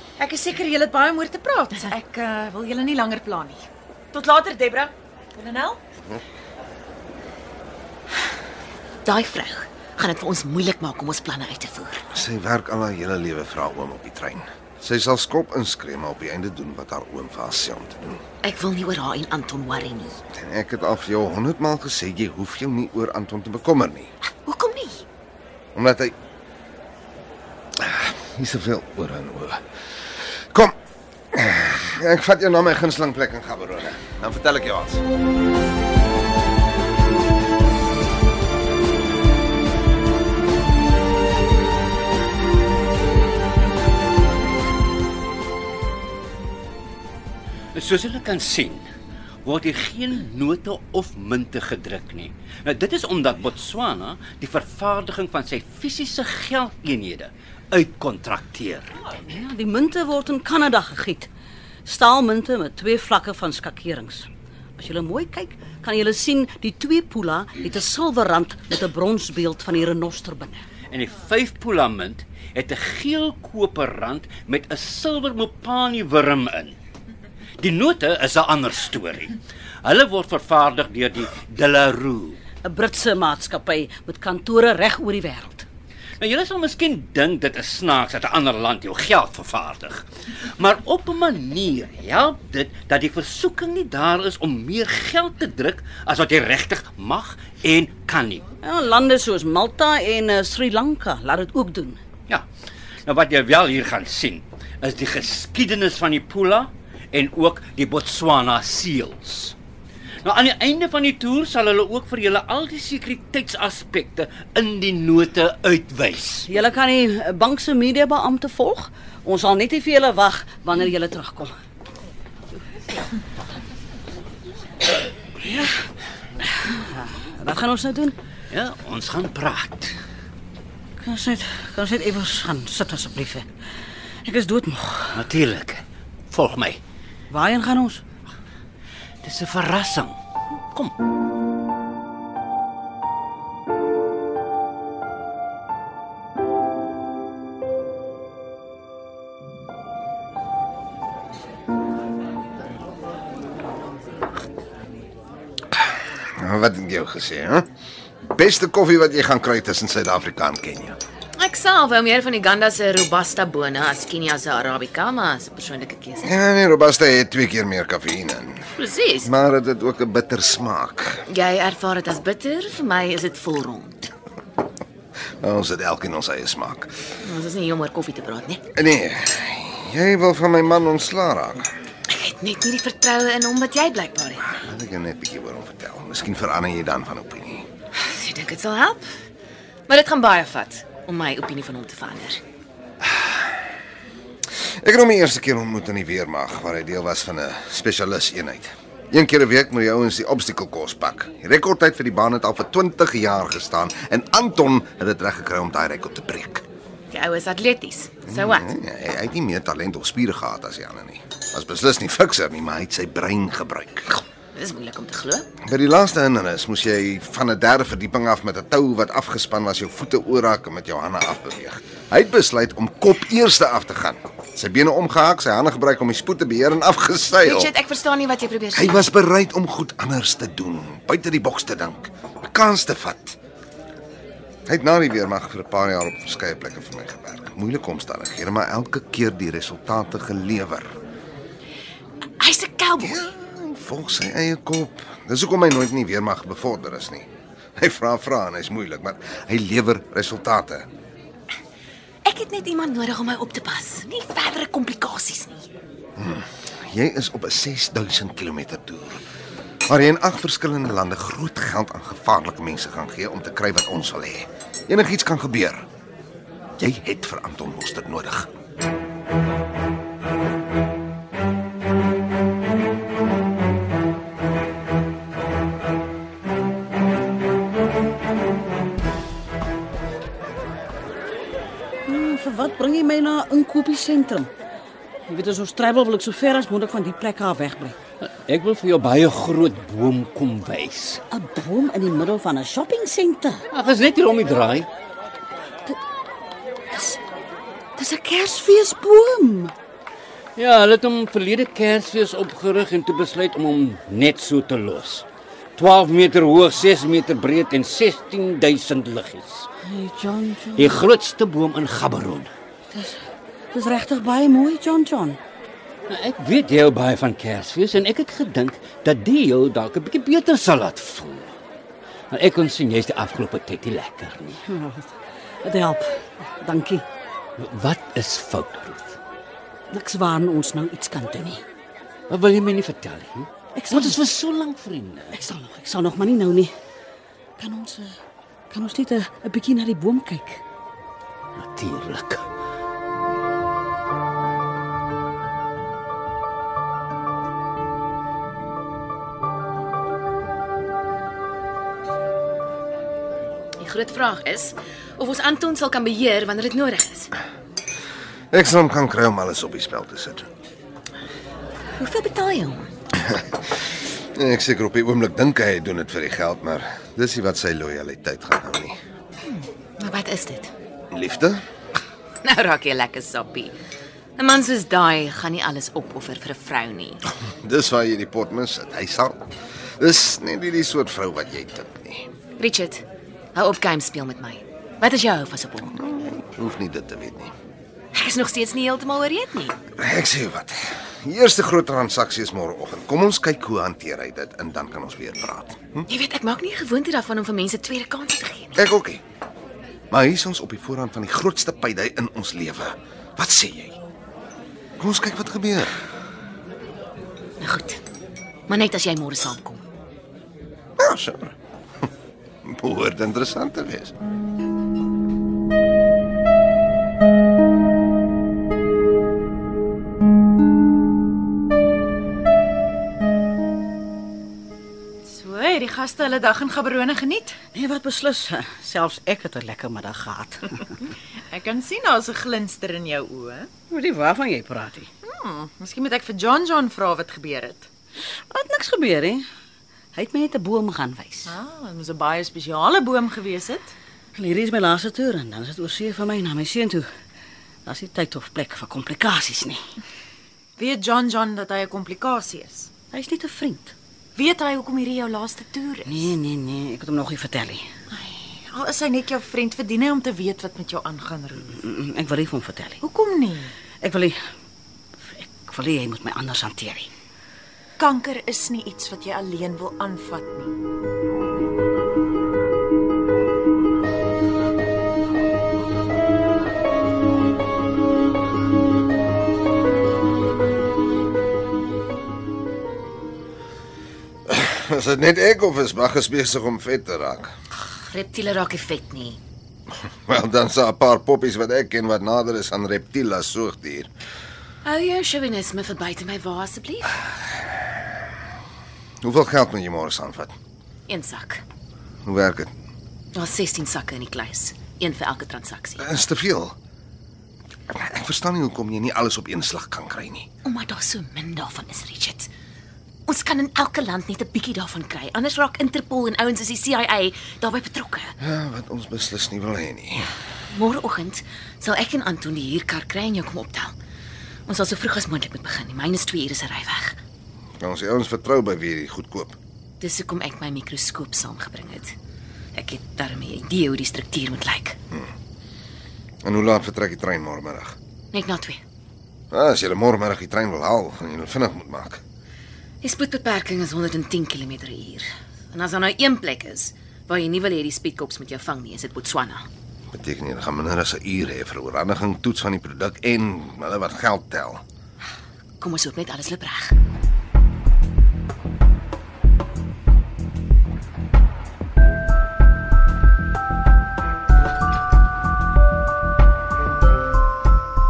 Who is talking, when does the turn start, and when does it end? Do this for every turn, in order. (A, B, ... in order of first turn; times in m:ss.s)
0:00.2-0:05.8 A
0:09.0-0:12.0 B
0:12.1-0:18.2 C
0:18.4-0:20.2 B
0:20.3-0:24.1 C
0:24.4-0:25.0 B
0:25.8-0:26.2 C
0:27.8-0:29.6 C
0:30.5-0:30.8 C
0:31.3-0:35.0 C
0:47.7-0:48.8 D
0:49.4-0:59.0 D
0:59.2-1:01.3 E
1:01.8-1:10.6 E
1:10.9-1:16.8 D
1:17.6-1:22.4 D
1:22.6-1:25.7 E
1:26.2-1:30.0 D
1:30.6-1:38.4 D
1:38.6-1:42.0 E
1:43.1-1:49.6 D
1:50.2-1:56.5 D
1:56.5-2:01.5 E
2:05.4-2:05.7 E
2:06.6-2:08.2 E
2:08.5-2:10.0 D
2:11.0-2:13.5 E
2:14.2-2:15.2 E
2:15.1-2:16.8 D
2:17.3-2:18.0 E
2:19.2-2:20.2 D
2:36.4-2:37.7 C
2:38.3-2:41.0 C
2:41.4-2:46.3 B
2:46.2-2:48.7 C
2:48.7-2:49.3 B
2:49.2-2:51.2 C
2:51.3-2:54.1 B
2:55.4-2:56.9 C
2:57.2-2:58.6 B
2:58.7-3:01.7 C
3:02.1-3:04.5 B
3:04.5-3:07.7 C
3:07.9-3:09.1 B
3:09.9-3:12.4 B
3:13.0-3:13.4 C
3:14.6-3:26.6 C
3:27.1-3:28.7 B
3:28.3-3:34.2 C
3:34.5-3:35.5 B
3:35.6-3:47.7 C
3:47.4-3:49.1 B
3:48.7-3:53.4 C
3:54.7-4:00.9 C
4:02.4-4:03.2 B
4:03.0-4:07.3 C
4:07.8-4:10.9 C
4:12.2-4:15.7 B
4:16.2-4:19.2 C
4:19.9-4:25.8 C
4:26.8-4:28.5 C
4:42.1-4:44.5 E
4:45.3-4:48.0 E
4:48.2-4:51.2 D
4:51.3-4:53.6 E
4:53.7-4:54.9 D
4:56.9-4:57.2 E
4:58.0-4:59.7 E
5:00.6-5:09.7 D
5:09.8-5:11.0 E
5:10.8-5:12.5 D
5:12.9-5:13.2 E
5:13.7-5:15.4 E
5:16.1-5:21.5 D
5:22.3-5:24.6 D
5:24.6-5:27.0 E
5:27.6-5:29.2 D
5:29.9-5:31.6 E
5:32.3-5:35.4 D
5:33.8-5:34.2 E
5:35.3-5:36.7 E
5:37.6-5:38.1 E
5:38.7-5:40.6 E
5:41.6-5:42.4 D
5:53.8-5:57.3 B
5:58.5-6:00.5 C
6:02.0-6:02.9 B
6:03.2-6:03.6 C
6:04.3-6:09.0 C
6:09.4-6:10.7 B
6:11.1-6:11.6 C
6:12.4-6:13.8 B
6:14.4-6:17.2 B
6:17.3-6:19.4 C
6:20.0-6:22.3 C
6:22.6-6:23.0 B
6:23.6-6:25.9 B
6:25.9-6:27.5 C
6:28.1-6:29.8 B
6:30.0-6:36.1 C
6:36.1-6:38.8 B
6:38.8-6:39.2 C
6:40.1-6:44.0 C
6:45.0-6:46.0 C
6:47.6-6:48.0 B
6:48.7-6:49.8 B
6:51.0-6:51.6 C
6:52.6-6:54.1 C
7:05.3-7:07.6 A
7:07.7-7:10.9 E
7:11.5-7:13.7 A
7:13.9-7:15.1 E
7:15.2-7:17.9 A
7:18.5-7:19.4 E
7:20.1-7:21.5 E
7:21.5-7:23.9 A
7:24.4-7:27.1 E
7:27.9-7:29.8 E
7:30.8-7:32.9 A
7:33.1-7:33.9 E
7:34.4-7:36.3 A
7:36.1-7:37.9 E
7:38.1-7:41.7 A
7:41.7-7:43.0 E
7:43.0-7:43.7 A
7:44.0-7:44.4 E
7:45.2-7:47.1 E
7:48.0-7:50.7 A
8:04.5-8:07.5 C
8:07.8-8:09.4 B
8:10.3-8:14.1 C
8:14.8-8:17.2 B
8:19.2-8:20.6 C
8:21.1-8:21.6 B
8:22.2-8:22.7 C
8:23.4-8:26.1 B
8:26.0-8:26.8 C
8:27.9-8:30.5 C
8:30.6-8:32.5 B
8:33.3-8:38.4 B
8:38.4-8:40.3 C
8:40.7-8:43.9 B
8:44.7-8:47.2 B
8:47.8-8:49.6 C
8:50.0-8:52.1 B
8:52.7-8:55.0 B
8:56.4-8:58.0 C
8:58.3-8:58.8 B
8:59.5-9:02.2 C
9:03.0-9:09.7 B
9:10.1-9:14.8 C
9:15.8-9:17.0 B